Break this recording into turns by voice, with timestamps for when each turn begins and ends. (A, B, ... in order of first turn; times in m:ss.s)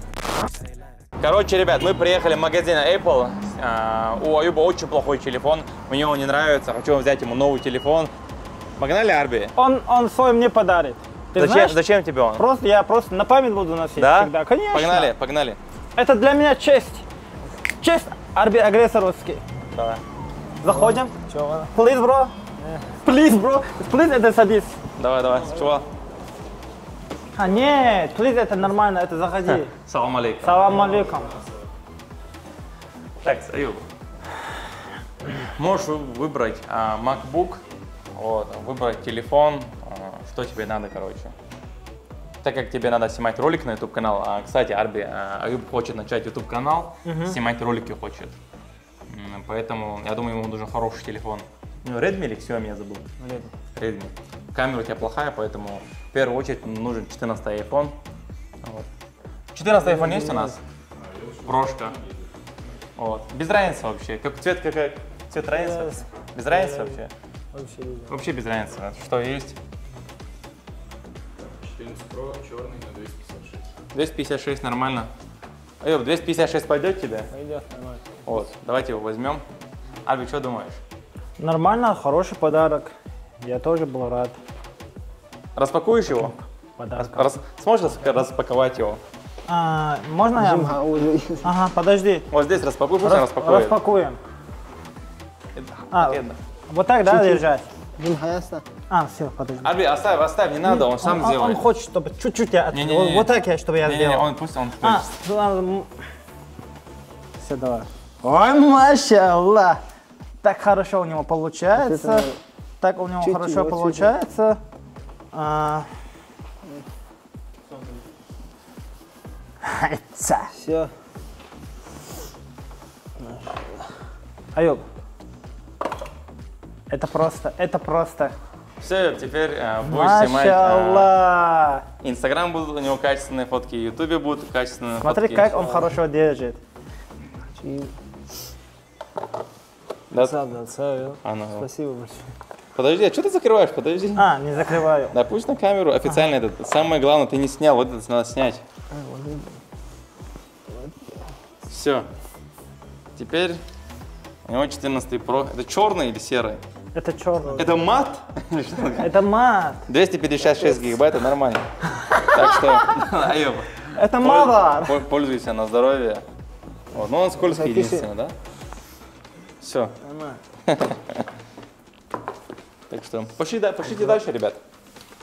0:01.2-0:08.1 A
0:08.8-0:09.5 A
0:09.6-0:11.8 B
0:11.4-0:12.4 A
0:12.4-0:15.1 B
0:14.0-0:15.6 A
0:16.0-0:17.0 B
0:17.8-0:19.4 B
0:19.7-0:20.0 A
0:20.6-0:21.2 B
0:20.7-0:21.7 C
0:21.7-0:22.3 B
0:22.6-0:23.0 C
0:23.0-0:24.8 B
0:25.0-0:25.9 A
0:25.4-0:25.8 C
0:27.4-0:29.7 B
0:29.5-0:31.0 A
0:30.4-0:31.4 B
0:33.2-0:33.8 A
0:35.3-0:37.6 A
0:38.1-0:41.3 A
0:42.4-0:48.4 A
0:47.0-0:47.4 B
0:49.1-0:53.1 A
0:53.2-0:53.5 C
0:53.8-0:58.0 A
0:58.6-0:58.9 A
0:59.5-1:00.6 A
0:59.7-1:00.6 C
1:01.0-1:02.3 D
1:01.5-1:02.0 A
1:03.0-1:07.1 A
1:05.5-1:07.0 C
1:07.5-1:08.2 C
1:08.1-1:09.6 A
1:11.4-1:13.8 D
1:13.9-1:15.1 A
1:15.8-1:17.3 A
1:17.3-1:18.2 C
1:18.3-1:19.4 A
1:20.0-1:20.8 A
1:21.4-1:24.4 B
1:25.6-1:26.3 A
1:26.2-1:27.3 B
1:27.0-1:29.0 A
1:29.5-1:30.8 B
1:30.4-1:31.5 C
1:31.4-1:32.3 B
1:32.3-1:33.8 A
1:33.0-1:34.2 B
1:35.6-1:36.4 A
1:35.9-1:37.6 B
1:37.1-1:37.4 C
1:38.0-1:38.6 C
1:38.9-1:39.7 B
1:39.6-1:41.6 A
1:40.5-1:45.9 B
1:42.7-1:43.3 A
1:43.8-1:45.1 A
1:47.4-1:49.8 B
1:50.4-1:52.3 B
1:51.7-1:52.4 C
1:52.8-1:54.6 B
1:53.2-1:54.2 C
1:55.3-1:55.9 B
1:59.6-2:00.5 B
2:00.5-2:00.9 C
2:03.2-2:04.0 C
2:04.6-2:04.8 B
2:06.9-2:08.4 B
2:08.8-2:11.1 A
2:09.8-2:11.9 B
2:12.0-2:15.6 A
2:15.0-2:16.6 B
2:17.5-2:18.0 C
2:20.1-2:22.3 C
2:21.2-2:21.7 A
2:22.8-2:24.3 A
2:24.2-2:25.2 B
2:25.1-2:28.6 A
2:28.9-2:29.6 C
2:31.7-2:32.1 A
2:33.2-2:33.6 A
2:34.5-2:36.6 A
2:37.0-2:37.8 B
2:37.4-2:37.7 C
2:37.6-2:39.1 A
2:39.0-2:39.9 B
2:39.9-2:41.6 A
2:42.1-2:42.8 B
2:42.2-2:46.2 A
2:43.8-2:45.0 B
2:46.9-2:48.4 A
2:47.3-2:48.1 C
2:49.6-2:50.0 A
2:50.0-2:50.4 C
2:50.6-2:51.3 A
2:52.9-2:54.6 A